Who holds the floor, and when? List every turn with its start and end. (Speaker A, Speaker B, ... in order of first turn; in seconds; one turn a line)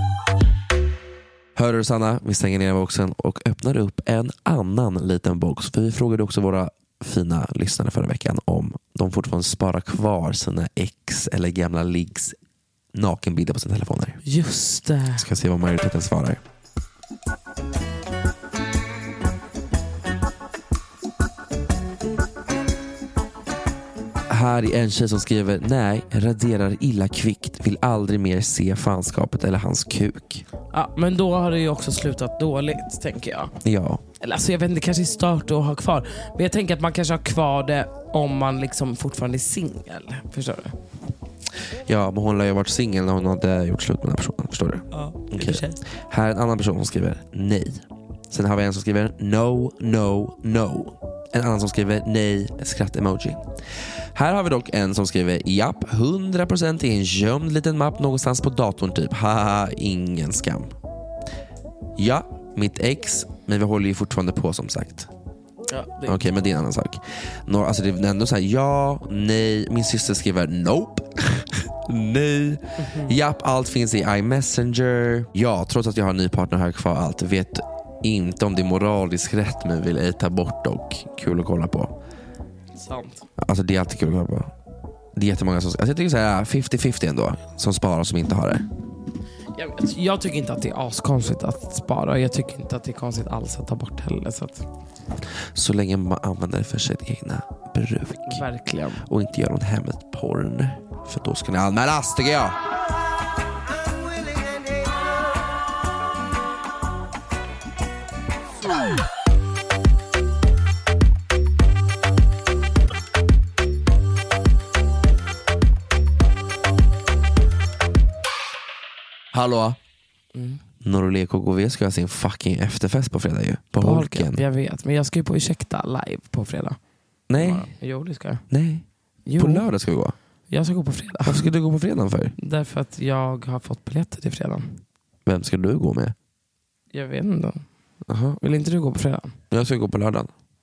Speaker A: 1.6-12.4
Speaker A: 12.9-14.2
Speaker B: 14.2-15.2
Speaker A: 15.2-16.4
Speaker A: 24.3-30.4
Speaker B: 30.7-33.5
Speaker A: 33.6-34.0
Speaker B: 34.2-40.8
Speaker A: 41.9-53.5
Speaker B: 44.9-45.8
Speaker A: 54.1-60.7
Speaker A: 62.0-65.1
Speaker B: 65.7-66.2
Speaker A: 66.0-82.0
Speaker B: 72.8-73.1
Speaker B: 82.8-83.3
Speaker A: 83.4-84.5
Speaker A: 85.2-88.7
Speaker B: 89.5-94.7
Speaker A: 95.5-98.4
Speaker B: 98.3-99.0
Speaker A: 99.0-102.6
Speaker A: 119.3-119.8
Speaker B: 120.3-120.6
Speaker A: 120.8-124.4
Speaker B: 123.8-126.8
Speaker A: 127.3-127.7
Speaker B: 127.4-128.4
Speaker A: 128.5-128.8
Speaker B: 129.3-129.7
Speaker A: 129.4-130.2
Speaker B: 130.5-131.5
Speaker A: 131.2-132.3
Speaker B: 132.4-134.8
Speaker A: 135.3-136.2
Speaker B: 136.9-137.7
Speaker A: 138.1-138.4
Speaker B: 138.4-139.4
Speaker A: 139.5-140.3